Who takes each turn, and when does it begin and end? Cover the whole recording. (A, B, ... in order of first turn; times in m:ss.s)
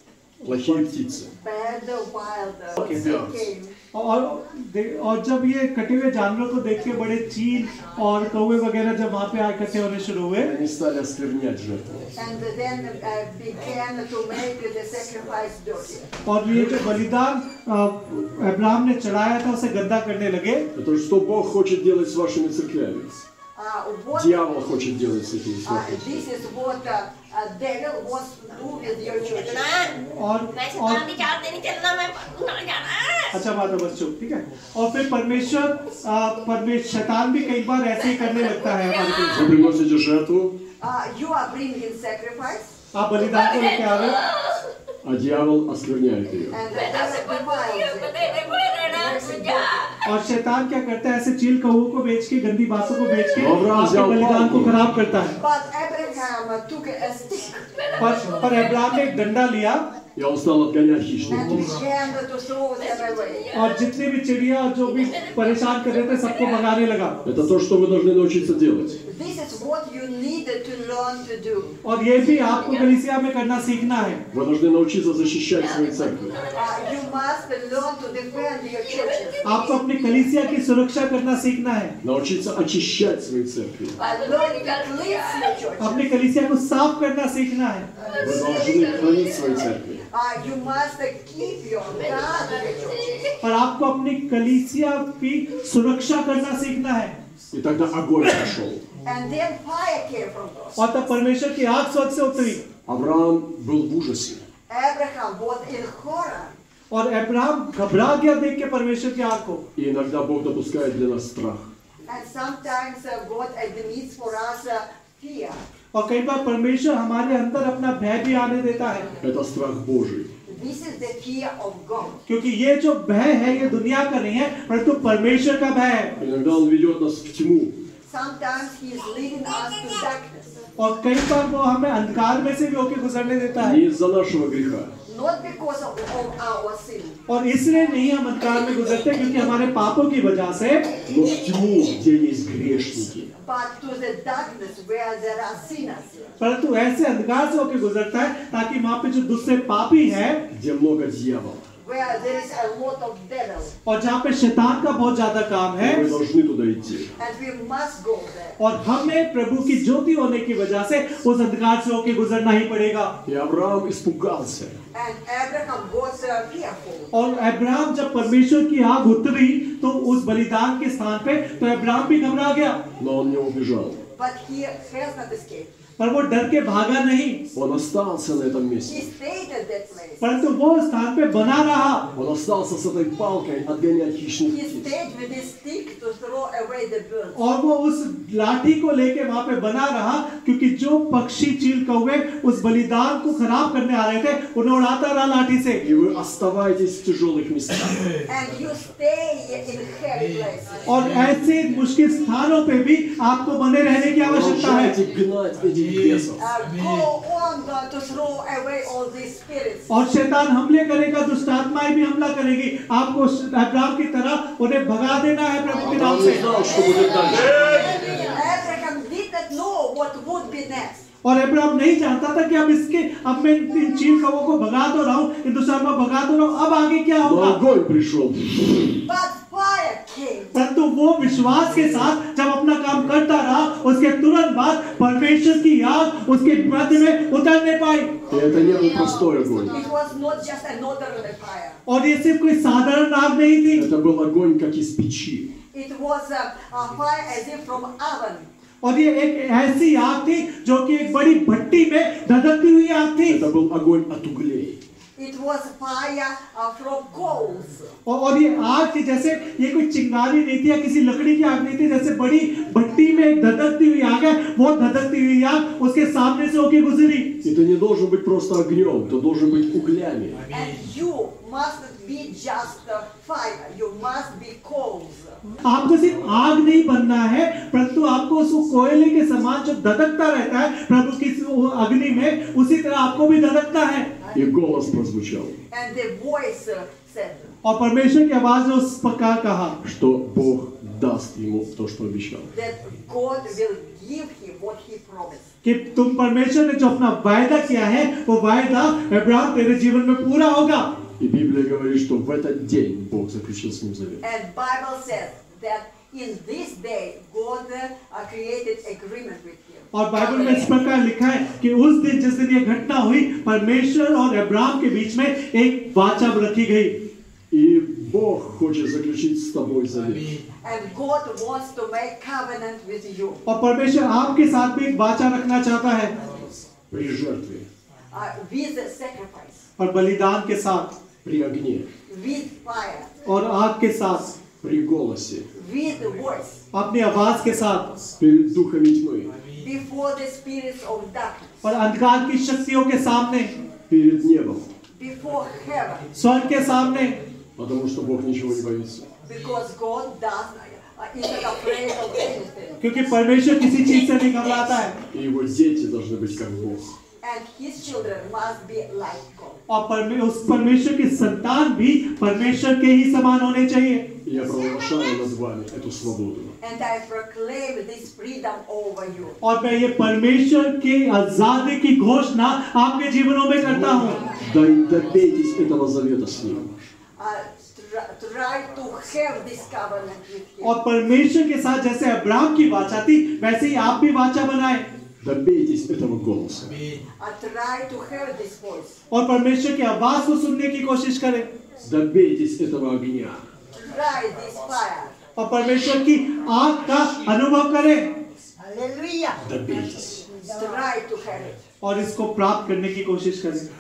0:00.4-0:01.3 A
0:00.5-0:00.8 B
0:01.4-0:03.8 C
0:02.8-0:03.4 A
0:03.9-0:10.6 B
0:10.4-0:12.1 A
0:12.2-0:16.1 C
0:16.3-0:20.7 B
0:20.8-0:23.2 A
0:23.6-0:24.5 C
0:24.2-0:26.3 A
0:25.6-0:29.9 C
0:30.1-0:31.2 B
0:30.6-0:33.3 D
0:33.3-0:39.6 B
0:38.7-0:39.3 D
0:39.3-0:40.6 A
0:40.8-0:42.7 C
0:42.9-0:44.2 B
0:44.2-0:44.6 D
0:45.0-0:46.6 A
0:46.5-0:50.0 C
0:46.7-0:50.0 D
0:50.0-0:55.4 B
0:53.4-0:54.8 A
0:55.4-0:57.7 C
0:57.7-0:58.8 D
0:58.0-0:59.9 B
1:00.2-1:01.7 A
1:01.3-1:03.6 C
1:03.3-1:03.7 D
1:03.5-1:07.2 B
1:05.1-1:05.6 D
1:07.2-1:09.0 A
1:09.1-1:11.8 C
1:11.8-1:14.2 B
1:14.3-1:16.4 A
1:16.0-1:16.7 D
1:16.5-1:19.7 C
1:19.4-1:22.0 B
1:22.0-1:24.0 A
1:24.0-1:26.1 C
1:24.0-1:25.6 D
1:25.8-1:27.9 B
1:28.0-1:29.4 D
1:28.2-1:30.0 A
1:30.1-1:33.2 C
1:32.2-1:33.4 D
1:33.4-1:37.2 B
1:37.5-1:38.9 A
1:39.0-1:40.8 C
1:40.8-1:42.6 B
1:42.9-1:44.4 A
1:44.7-1:46.6 C
1:46.9-1:49.6 B
1:49.8-1:51.7 A
1:52.1-1:55.6 C
1:55.9-1:59.1 B
1:59.2-2:00.3 A
2:00.5-2:02.2 C
2:02.3-2:06.2 B
2:06.2-2:07.8 A
2:08.1-2:10.6 C
2:10.8-2:13.8 B
2:13.6-2:15.0 A
2:15.0-2:17.2 C
2:17.3-2:20.9 B
2:21.1-2:23.3 A
2:23.4-2:26.4 C
2:26.4-2:30.5 B
2:30.5-2:31.7 A
2:31.8-2:33.7 C
2:33.9-2:36.1 B
2:35.8-2:37.1 A
2:37.2-2:38.6 C
2:38.6-2:43.2 B
2:43.2-2:44.8 A
2:44.9-2:47.1 C
2:47.1-2:52.8 B
2:53.0-2:54.0 A
2:54.2-2:55.7 C
2:56.0-2:57.4 B
2:57.5-2:59.1 A
2:58.9-3:00.4 C
3:00.2-3:02.1 B
3:02.1-3:04.9 A
3:04.5-3:07.4 C
3:07.4-3:15.8 B
3:15.8-3:18.2 A
3:18.3-3:20.9 C
3:20.9-3:25.0 B
3:24.2-3:26.4 A
3:26.4-3:29.9 C
3:29.9-3:36.5 B
3:35.8-3:38.0 A
3:38.2-3:41.0 C
3:41.2-3:47.6 B
3:47.2-3:49.0 A
3:49.0-3:50.6 C
3:50.5-3:58.2 B
3:58.3-3:59.8 A
3:59.7-4:01.8 C
4:01.9-4:03.9 B
4:03.7-4:05.5 A
4:05.7-4:08.5 C
4:08.8-4:13.5 B
4:13.3-4:14.8 A
4:15.2-4:17.9 C
4:18.1-4:27.4 B
4:27.4-4:30.4 A
4:30.5-4:35.4 C
4:35.6-4:44.1 B
4:44.3-4:45.6 A
4:45.7-4:47.5 C
4:47.6-4:49.8 B
4:49.8-4:52.5 A
4:52.5-4:55.5 C
4:55.6-5:00.9 B
5:01.2-5:04.2 A
5:04.2-5:10.9 C
5:09.9-5:17.0 B
5:17.5-5:20.4 A
5:20.6-5:23.4 C
5:23.5-5:26.2 B
5:26.9-5:27.7 A
5:28.1-5:29.7 C
5:29.8-5:30.9 B
5:31.2-5:31.9 A
5:32.1-5:33.1 C
5:33.2-5:34.4 B
5:34.6-5:35.5 A
5:35.5-5:36.6 C
5:36.7-5:37.9 B
5:38.2-5:39.4 A
5:39.5-5:41.6 C
5:41.6-5:43.5 B
5:43.9-5:44.7 A
5:44.9-5:46.1 C
5:46.1-5:47.2 B
5:47.6-5:49.1 A
5:49.2-5:52.8 C
5:52.8-5:55.0 B
5:55.1-5:57.0 A
5:57.2-5:59.6 C
5:59.7-6:04.2 B
6:04.2-6:06.6 A
6:06.6-6:09.4 C
6:09.4-6:14.3 B
6:14.1-6:16.9 A
6:17.2-6:20.8 C
6:20.6-6:24.8 B
6:25.2-6:26.8 A
6:27.2-6:29.0 C
6:29.1-6:31.5 B
6:31.8-6:33.4 A
6:33.8-6:35.2 C
6:35.4-6:38.1 B
6:38.6-6:39.1 C
6:39.4-6:40.3 A
6:40.5-6:41.6 C
6:41.8-6:43.7 B